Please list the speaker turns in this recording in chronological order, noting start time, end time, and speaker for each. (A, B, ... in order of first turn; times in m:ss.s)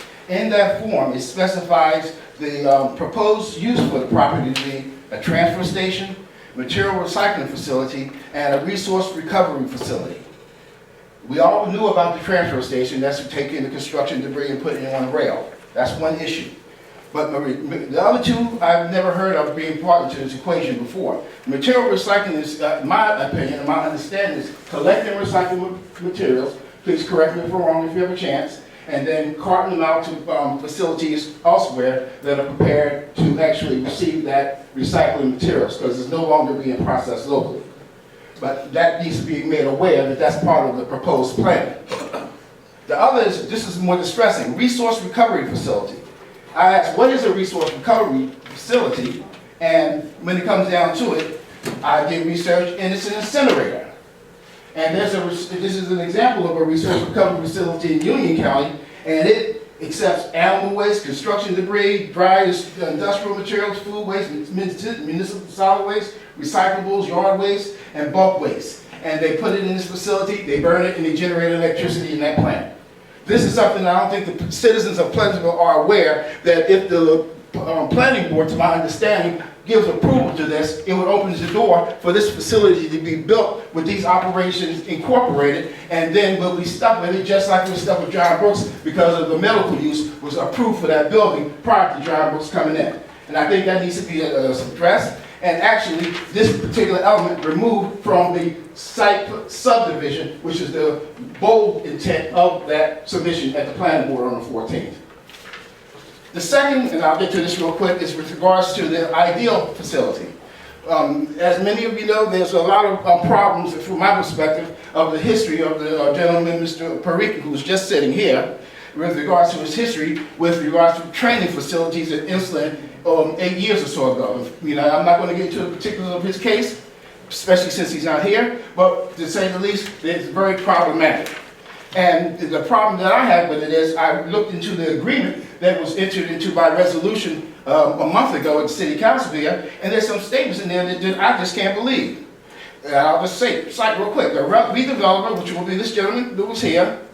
0:00.3-0:10.2 A
0:11.2-0:16.5 A
0:17.1-0:37.7 A
0:38.4-0:41.8 A
0:42.9-0:53.9 A
0:54.7-1:12.7 A
1:13.2-1:45.0 A
1:46.3-2:06.8 A
2:07.3-2:11.3 A
2:11.9-2:22.2 A
2:22.8-2:27.0 A